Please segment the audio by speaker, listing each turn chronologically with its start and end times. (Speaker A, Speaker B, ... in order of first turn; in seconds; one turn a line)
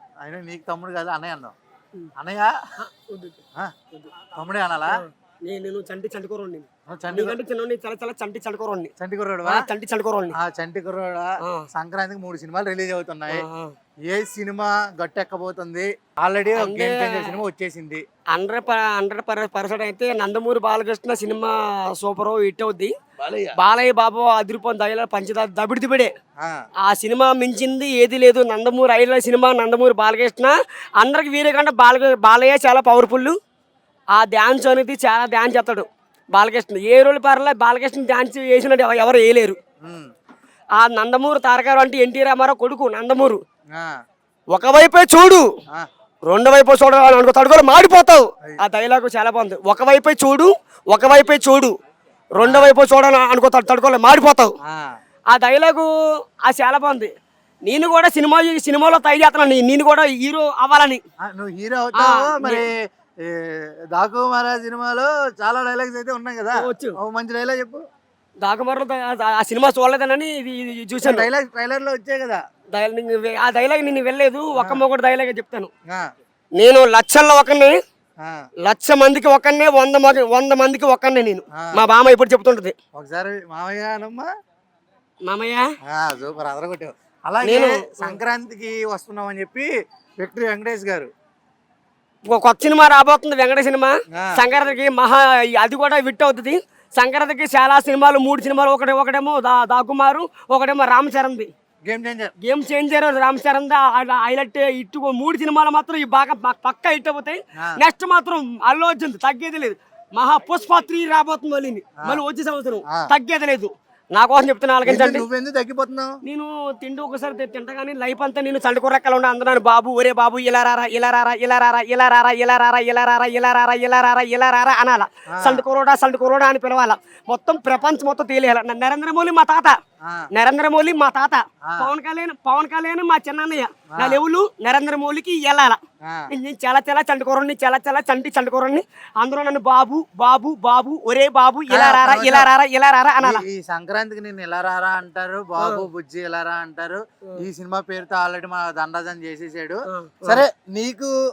Speaker A: 0.2-1.5
Speaker A: 2.2-2.5
Speaker B: 2.8-3.4
Speaker A: 4.3-5.0
Speaker B: 5.0-8.9
Speaker A: 6.9-7.4
Speaker A: 9.0-9.7
Speaker B: 9.4-10.3
Speaker A: 10.3-13.4
Speaker B: 11.4-11.7
Speaker B: 13.3-13.7
Speaker A: 14.1-18.0
Speaker B: 16.6-17.4
Speaker B: 18.3-22.9
Speaker A: 23.2-23.6
Speaker B: 23.6-26.1
Speaker B: 26.8-33.4
Speaker B: 34.1-39.6
Speaker A: 39.8-40.1
Speaker B: 40.8-43.4
Speaker B: 44.5-45.5
Speaker B: 46.3-51.7
Speaker B: 52.3-54.5
Speaker A: 52.4-52.7
Speaker A: 54.6-54.9
Speaker B: 55.3-55.9
Speaker B: 56.4-57.1
Speaker B: 57.6-61.0
Speaker A: 61.2-62.7
Speaker B: 62.0-62.7
Speaker A: 63.2-67.8
Speaker B: 66.6-67.0
Speaker B: 68.4-71.3
Speaker A: 71.0-72.4
Speaker B: 72.7-75.7
Speaker A: 74.5-74.8
Speaker B: 76.6-77.8
Speaker B: 78.6-82.7
Speaker A: 83.0-84.3
Speaker B: 85.2-85.6
Speaker A: 85.9-89.7
Speaker B: 87.4-88.2
Speaker A: 90.2-91.1
Speaker B: 92.3-101.5
Speaker A: 94.1-94.4
Speaker A: 101.8-102.3
Speaker B: 102.4-115.2
Speaker A: 114.8-116.1
Speaker B: 116.2-129.8
Speaker A: 125.3-125.6
Speaker A: 130.0-130.3
Speaker B: 130.3-135.8
Speaker A: 131.6-131.9
Speaker A: 133.9-134.2
Speaker A: 136.0-136.3
Speaker B: 136.3-143.4
Speaker A: 141.7-142.5
Speaker A: 143.2-151.1
Speaker B: 145.6-145.8
Speaker B: 149.9-150.4